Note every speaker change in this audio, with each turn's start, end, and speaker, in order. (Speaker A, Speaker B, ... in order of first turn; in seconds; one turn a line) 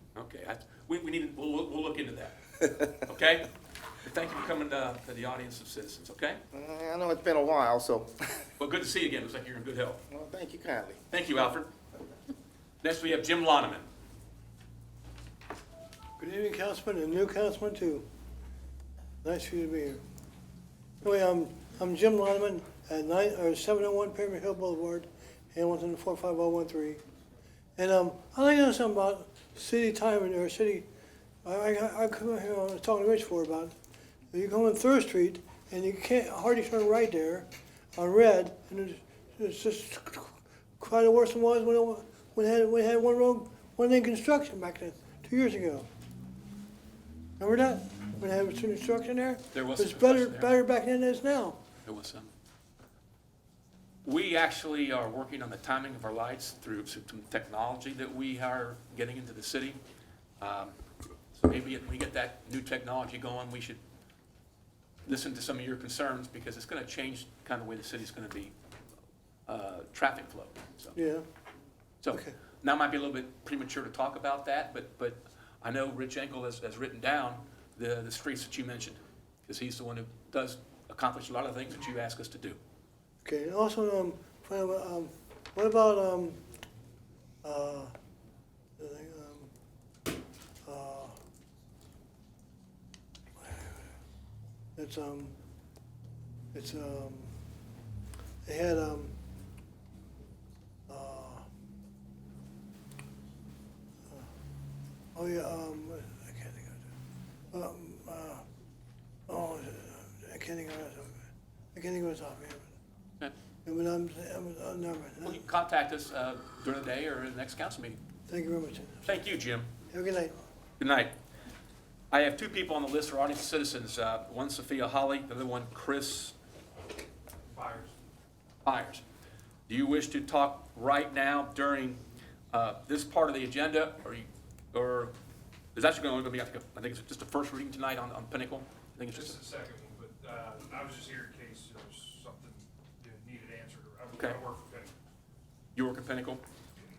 Speaker A: 0.1-6.4
Speaker B: 6.5-8.1
Speaker A: 8.6-10.0
Speaker B: 10.1-11.0
Speaker A: 11.1-11.7
Speaker A: 12.8-13.8
Speaker C: 16.2-18.0
Speaker C: 19.2-20.0
Speaker C: 21.0-27.0
Speaker C: 27.8-30.9
Speaker C: 31.4-33.7
Speaker C: 34.3-45.9
Speaker C: 47.4-51.6
Speaker A: 49.5-50.5
Speaker A: 51.8-52.3
Speaker A: 54.0-59.8
Speaker A: 60.4-60.8
Speaker A: 61.4-63.8
Speaker A: 65.0-68.5
Speaker A: 69.5-71.0
Speaker C: 70.9-71.2
Speaker A: 72.0-82.6
Speaker C: 83.2-86.4
Speaker C: 87.4-87.9
Speaker C: 88.8-89.5
Speaker C: 90.7-91.2
Speaker C: 93.4-93.7
Speaker C: 94.8-95.3
Speaker C: 96.5-97.3
Speaker C: 98.4-99.1
Speaker C: 100.9-101.4
Speaker C: 105.1-106.8
Speaker C: 107.5-108.4
Speaker C: 109.3-111.2
Speaker C: 111.7-112.6
Speaker C: 113.7-115.4
Speaker A: 115.2-118.0
Speaker C: 118.3-119.0
Speaker A: 119.0-119.7
Speaker C: 119.9-120.3
Speaker A: 120.8-121.1
Speaker A: 122.1-126.3
Speaker D: 127.5-127.9
Speaker A: 128.6-129.0
Speaker A: 129.7-132.0
Speaker A: 132.5-135.1
Speaker A: 135.7-139.3
Speaker D: 139.1-144.9
Speaker A: 145.8-146.4